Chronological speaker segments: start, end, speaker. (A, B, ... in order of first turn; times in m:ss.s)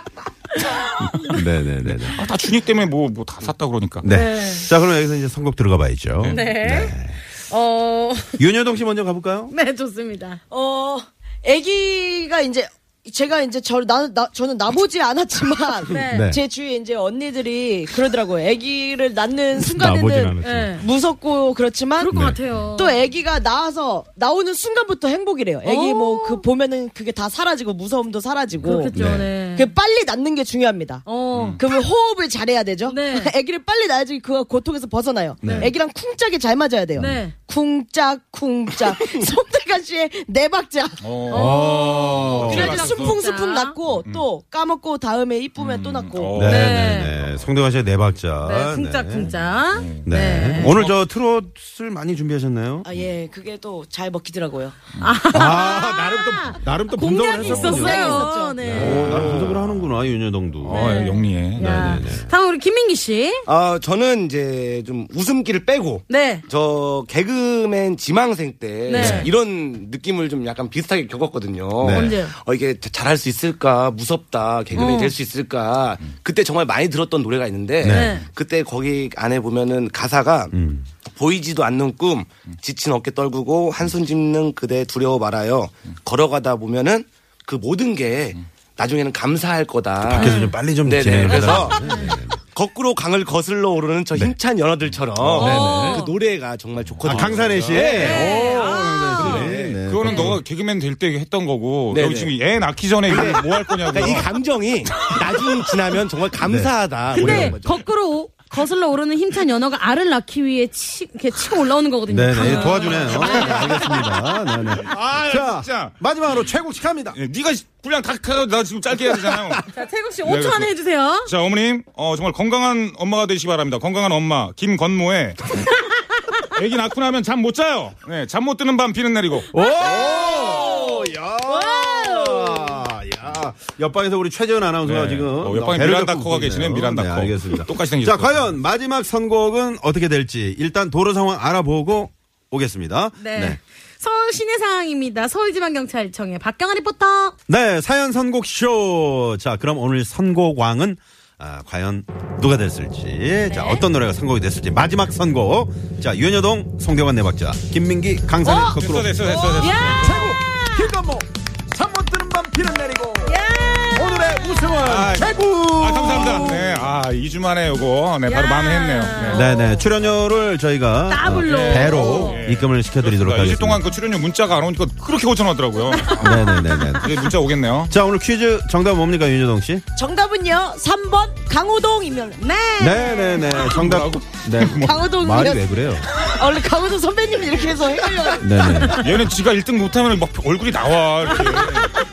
0:00.8-0:01.4 A
0:01.1-0:02.2 B
0:02.1-0:04.1 C
0:04.0-0:07.2 B
0:04.1-0:04.7 A
0:06.3-0:06.9 A
0:07.5-0:08.4 A
0:08.4-0:09.5 B
0:09.5-0:10.4 A
0:10.5-0:22.2 D
0:15.9-0:16.3 A
0:16.0-0:16.4 B
0:19.6-0:20.8 B
0:20.4-0:20.8 A
0:22.0-0:23.0 A
0:22.1-0:22.4 B
0:22.7-0:29.0 D
0:25.6-0:26.4 A
0:28.6-0:29.3 B
0:28.6-0:29.7 A
0:29.5-0:31.0 D
0:31.0-0:31.6 A
0:31.3-0:31.6 C
0:31.6-0:46.5 D
0:32.9-0:33.3 A
0:35.4-0:35.7 B
0:37.0-0:37.3 A
0:41.0-0:43.2 C
0:41.3-0:42.9 B
0:41.3-0:42.1 A
0:43.0-0:43.8 A
0:43.9-0:44.3 C
0:45.6-0:47.5 C
0:46.3-0:49.3 B
0:46.4-0:47.1 A
0:48.4-0:50.7 A
0:49.3-0:51.0 C
0:50.0-0:52.9 B
0:52.8-0:54.8 D
0:54.9-0:55.2 C
0:55.0-0:59.2 A
0:55.3-1:00.8 B
0:57.3-0:58.6 D
0:58.6-0:59.6 E
0:58.8-0:59.9 C
1:00.6-1:01.7 C
1:00.7-1:03.4 A
1:01.6-1:02.3 B
1:03.4-1:20.5 E
1:06.1-1:06.4 A
1:08.8-1:09.3 A
1:08.9-1:09.3 B
1:11.8-1:12.2 B
1:11.9-1:12.3 A
1:14.7-1:15.1 A
1:17.8-1:18.2 B
1:17.8-1:18.2 A
1:20.5-1:20.9 B
1:21.1-1:31.9 E
1:30.1-1:32.4 B
1:30.1-1:30.5 A
1:31.5-1:32.2 A
1:32.5-1:40.3 E
1:35.2-1:36.0 B
1:35.4-1:36.1 A
1:36.9-1:44.3 C
1:37.0-1:40.4 B
1:38.0-1:39.4 A
1:40.0-1:40.3 A
1:41.9-1:42.3 E
1:43.0-1:47.8 E
1:44.9-1:45.5 C
1:46.4-1:47.5 B
1:47.1-1:53.9 A
1:52.1-1:57.2 B
1:52.4-1:54.1 C
1:54.7-1:56.5 C
1:57.1-1:59.7 C
1:59.2-1:59.6 B
1:59.7-2:01.3 A
2:00.2-2:05.7 C
2:06.4-2:09.5 C
2:09.5-2:23.6 B
2:09.6-2:10.5 A
2:09.7-2:11.1 D
2:11.7-2:12.4 D
2:14.8-2:18.4 C
2:23.2-2:27.3 A
2:27.5-2:46.9 B
2:33.5-2:33.8 A
2:38.4-2:40.2 C
2:38.4-2:41.0 A
2:43.2-2:44.8 A
2:44.8-2:49.5 C
2:48.2-2:49.8 A
2:49.3-2:53.8 B
2:51.1-2:52.4 A
2:51.4-2:57.9 C
2:55.9-2:57.0 A
2:56.1-2:57.2 B
2:57.9-2:59.8 B
2:59.9-3:02.4 D
3:02.4-3:03.7 A
3:02.8-3:06.1 B
3:03.5-3:05.0 C
3:04.8-3:08.9 D
3:08.4-3:09.0 B
3:08.9-3:12.0 C
3:11.3-3:11.8 A